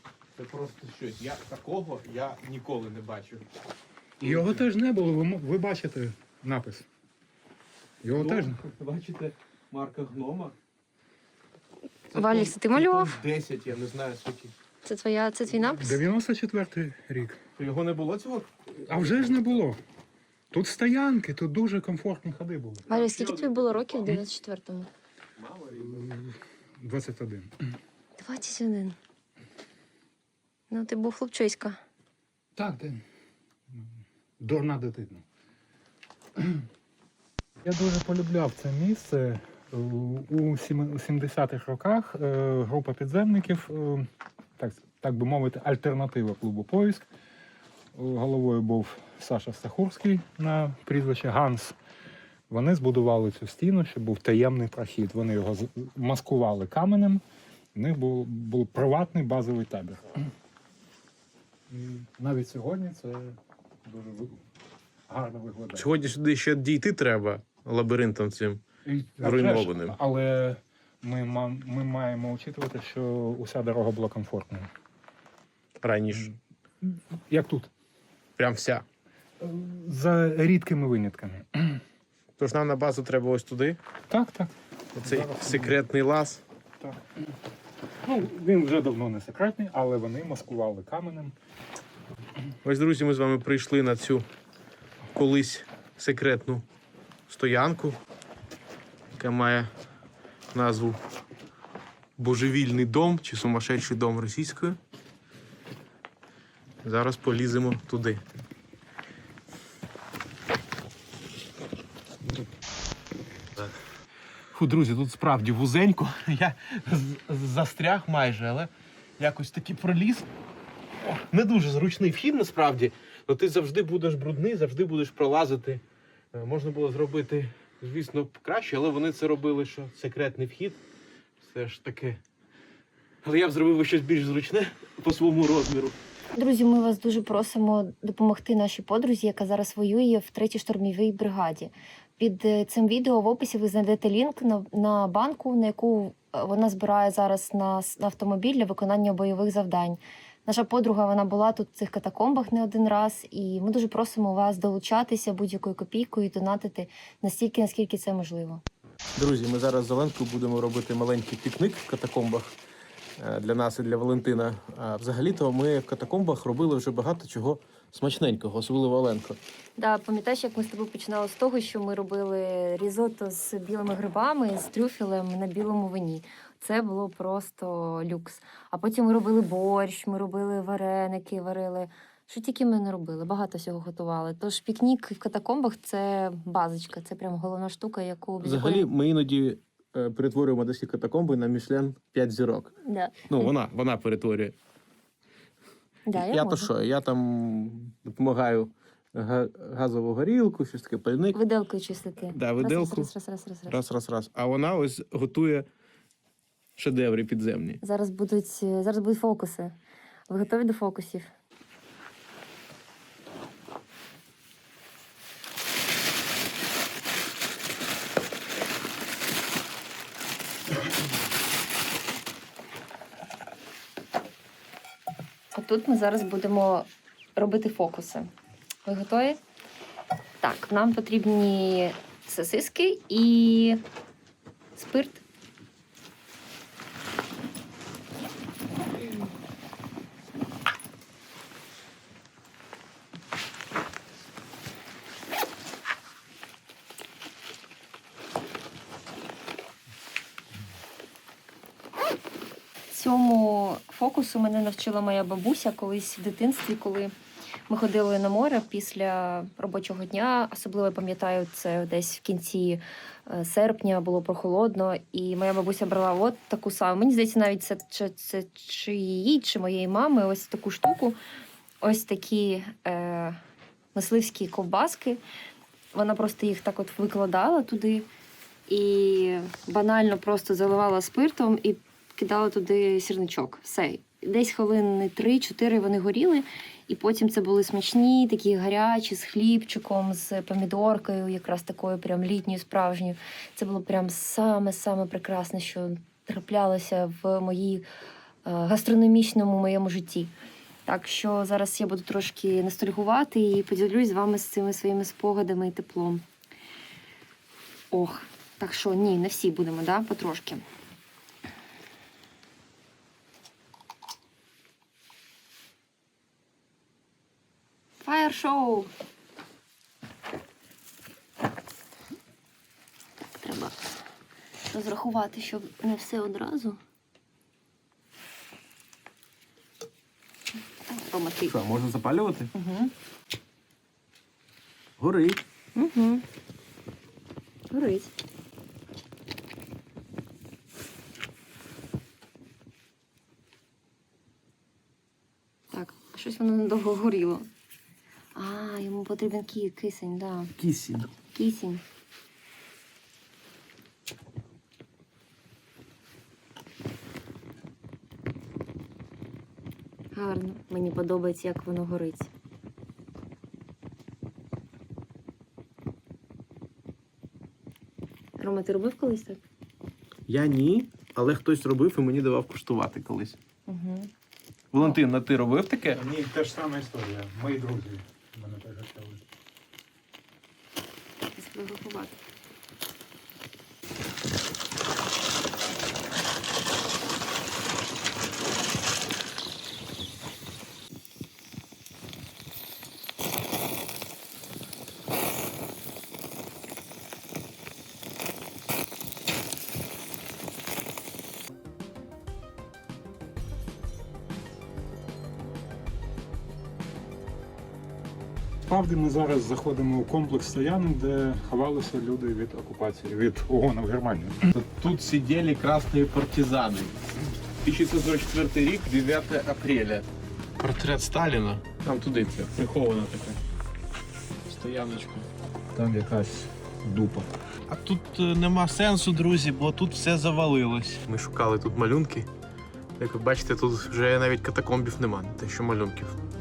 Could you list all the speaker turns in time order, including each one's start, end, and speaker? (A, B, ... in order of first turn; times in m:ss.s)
0:00.4-0:03.5 A
0:04.2-0:06.9 B
0:04.2-0:04.7 A
0:08.0-0:08.6 B
0:08.1-0:10.6 A
0:12.1-0:14.6 A
0:12.2-0:13.2 C
0:14.8-0:16.0 C
0:15.6-0:17.4 B
0:17.6-0:19.6 A
0:18.9-0:19.8 B
0:20.5-0:22.9 B
0:22.9-0:24.9 C
0:22.9-0:24.2 A
0:25.4-0:26.1 A
0:25.8-0:27.7 B
0:28.2-0:29.0 C
0:30.7-0:31.8 C
0:32.6-0:33.0 B
0:33.7-0:35.2 B
0:36.4-0:36.7 B
0:37.6-0:47.1 B
0:47.9-0:51.8 B
0:52.5-0:57.2 B
0:57.8-1:00.3 B
1:01.7-1:04.4 B
1:05.1-1:05.9 B
1:05.8-1:08.6 A
1:08.8-1:14.7 B
1:09.2-1:10.0 A
1:15.8-1:16.4 A
1:16.8-1:17.7 B
1:18.4-1:18.9 A
1:19.4-1:21.8 B
1:22.4-1:23.8 A
1:24.1-1:25.8 B
1:25.0-1:26.4 A
1:26.8-1:27.3 B
1:28.0-1:31.4 B
1:32.6-1:34.3 A
1:35.1-1:36.6 A
1:37.3-1:38.0 A
1:39.1-1:39.7 A
1:40.5-1:41.0 A
1:42.2-1:44.8 A
1:46.8-1:48.2 A
1:54.5-2:00.3 A
2:01.0-2:10.8 A
2:11.4-2:12.2 A
2:13.2-2:16.0 A
2:16.4-2:38.6 C
2:39.1-2:42.5 A
2:43.2-2:49.4 A
2:49.8-3:08.9 C
3:08.4-3:12.8 A
3:12.8-3:13.5 C
3:13.3-3:14.6 A
3:16.1-3:16.7 C
3:16.2-3:21.4 A
3:21.3-3:23.8 C
3:22.3-3:23.1 A
3:23.7-3:25.7 A
3:26.8-3:27.8 A
3:27.8-3:29.8 C
3:30.3-3:31.3 C
3:45.5-3:48.3 C
3:48.8-3:49.4 C
3:50.4-3:53.8 C
3:54.8-3:55.2 C
4:12.9-4:17.1 C
4:17.7-4:31.2 C
4:31.8-4:33.4 C
4:34.0-4:35.2 C
4:35.9-4:38.1 C
4:38.7-4:57.9 C
4:58.4-5:00.3 C
5:00.9-5:06.2 C
5:07.9-5:10.6 C
5:18.0-5:18.9 C
5:23.4-5:24.0 C
5:24.7-5:26.8 C
5:30.9-5:31.6 C
5:31.4-5:32.5 A
5:32.6-5:32.9 C
5:35.0-5:35.4 A
5:35.8-5:36.2 C
5:37.7-5:38.1 C
5:45.7-5:47.5 C
5:48.4-5:50.5 C
5:50.6-5:51.1 A
5:51.3-5:51.8 C
6:00.1-6:02.3 C
6:08.4-6:09.4 C
6:10.3-6:13.4 A
6:13.7-6:14.1 C
6:14.7-6:16.0 A
6:15.9-6:19.2 B
6:21.4-6:22.2 C
6:48.7-6:54.5 B
6:54.6-6:57.1 A
6:57.6-7:00.1 A
7:00.6-7:03.4 A
7:04.5-7:05.3 A
7:05.7-7:07.3 B
7:07.7-7:12.3 A
7:13.0-7:16.2 A